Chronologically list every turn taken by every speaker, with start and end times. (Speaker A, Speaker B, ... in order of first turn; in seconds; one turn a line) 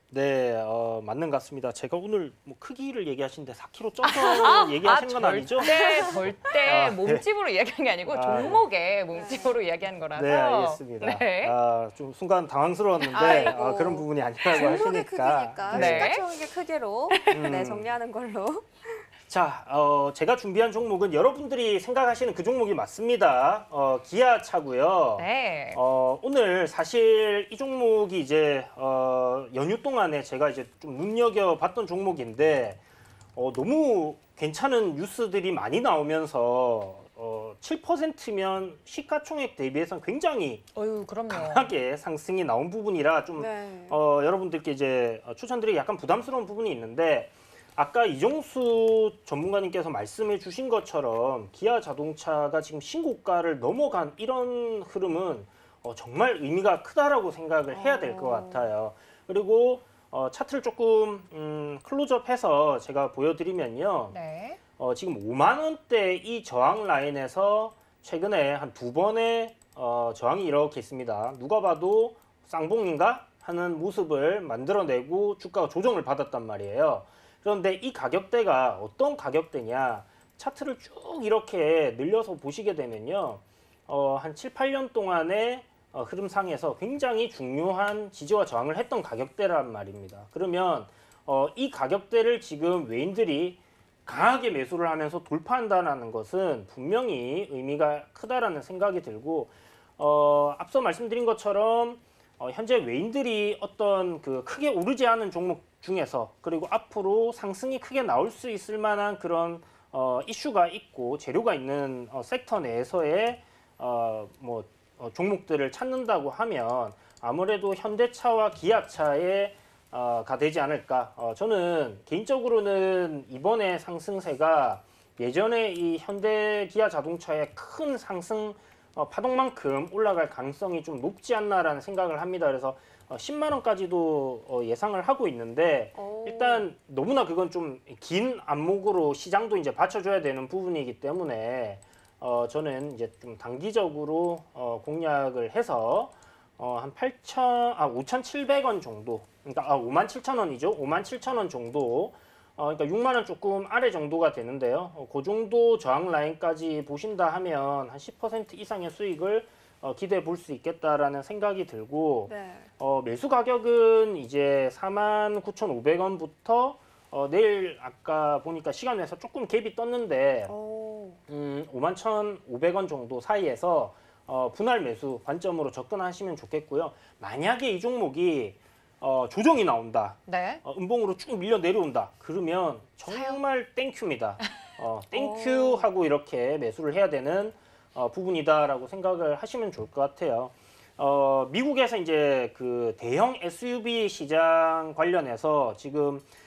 Speaker A: 0.1-5.8
Speaker B: 4.0-11.6
Speaker C: 5.7-6.5
Speaker A: 6.6-7.2
Speaker A: 8.1-8.6
Speaker C: 9.1-9.6
Speaker A: 10.1-16.2
Speaker C: 13.1-19.1
Speaker B: 13.1-13.6
Speaker B: 14.4-14.7
Speaker B: 15.7-16.2
Speaker B: 17.1-17.5
Speaker A: 17.3-17.9
Speaker A: 19.2-32.8
Speaker B: 25.2-25.8
Speaker A: 33.3-40.6
Speaker B: 40.7-41.7
Speaker A: 41.3-64.2
Speaker C: 43.4-44.0
Speaker C: 57.7-58.7
Speaker B: 64.1-64.6
Speaker A: 64.8-170.5
Speaker C: 135.9-136.7
Speaker C: 162.2-162.7
Speaker C: 170.5-171.2
Speaker A: 171.3-196.2
Speaker B: 180.3-180.6
Speaker B: 183.1-183.4
Speaker C: 185.1-185.9